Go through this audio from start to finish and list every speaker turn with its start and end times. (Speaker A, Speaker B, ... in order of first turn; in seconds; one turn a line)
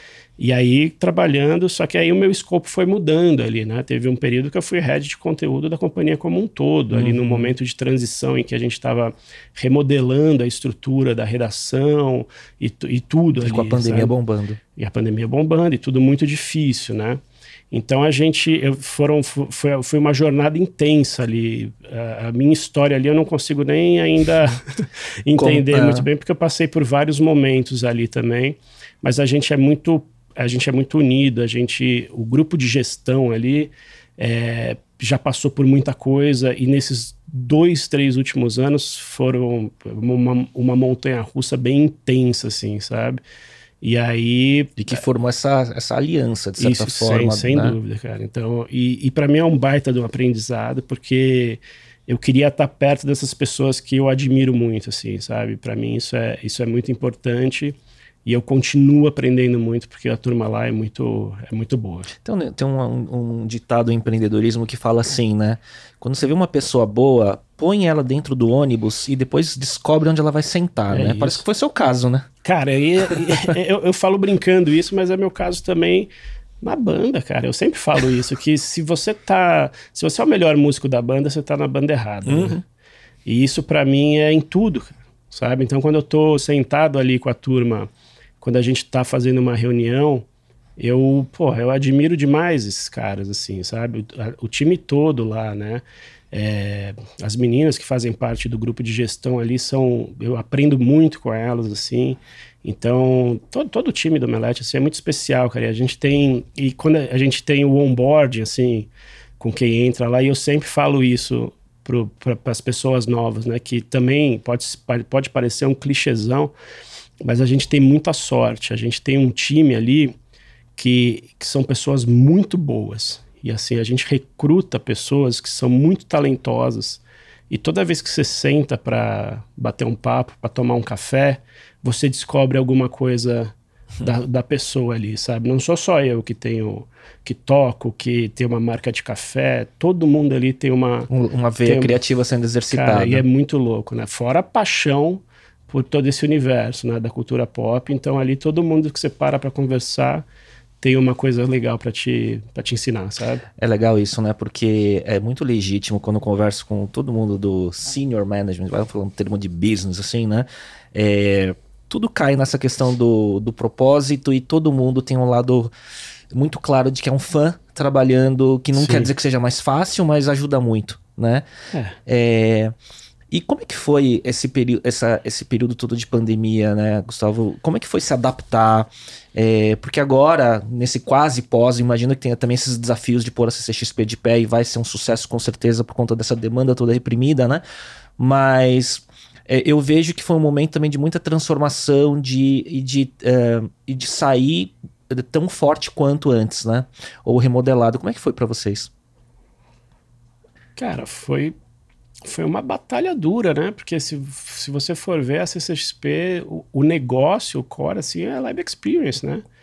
Speaker A: 0.4-14.1
Speaker B: 6.9-7.5
Speaker B: 13.4-14.6
Speaker A: 14.8-17.2
Speaker A: 17.7-43.2
Speaker B: 25.4-26.1
Speaker A: 43.8-44.8
Speaker B: 44.8-47.8
Speaker A: 46.6-62.1
Speaker B: 62.1-72.3
Speaker A: 70.9-71.4
Speaker A: 72.4-76.1
Speaker A: 76.6-82.6
Speaker B: 82.2-82.6
Speaker A: 83.2-87.9
Speaker A: 88.4-90.2
Speaker A: 90.8-116.5
Speaker A: 117.2-120.1
Speaker A: 120.8-141.1
Speaker B: 141.1-143.2
Speaker A: 141.6-142.0
Speaker A: 142.7-150.2
Speaker A: 150.8-153.4
Speaker B: 153.6-165.7
Speaker B: 166.3-171.4
Speaker A: 168.7-169.1
Speaker B: 172.1-172.7
Speaker B: 173.3-187.6
Speaker B: 188.2-198.9
Speaker A: 200.8-201.5
Speaker A: 202.2-209.4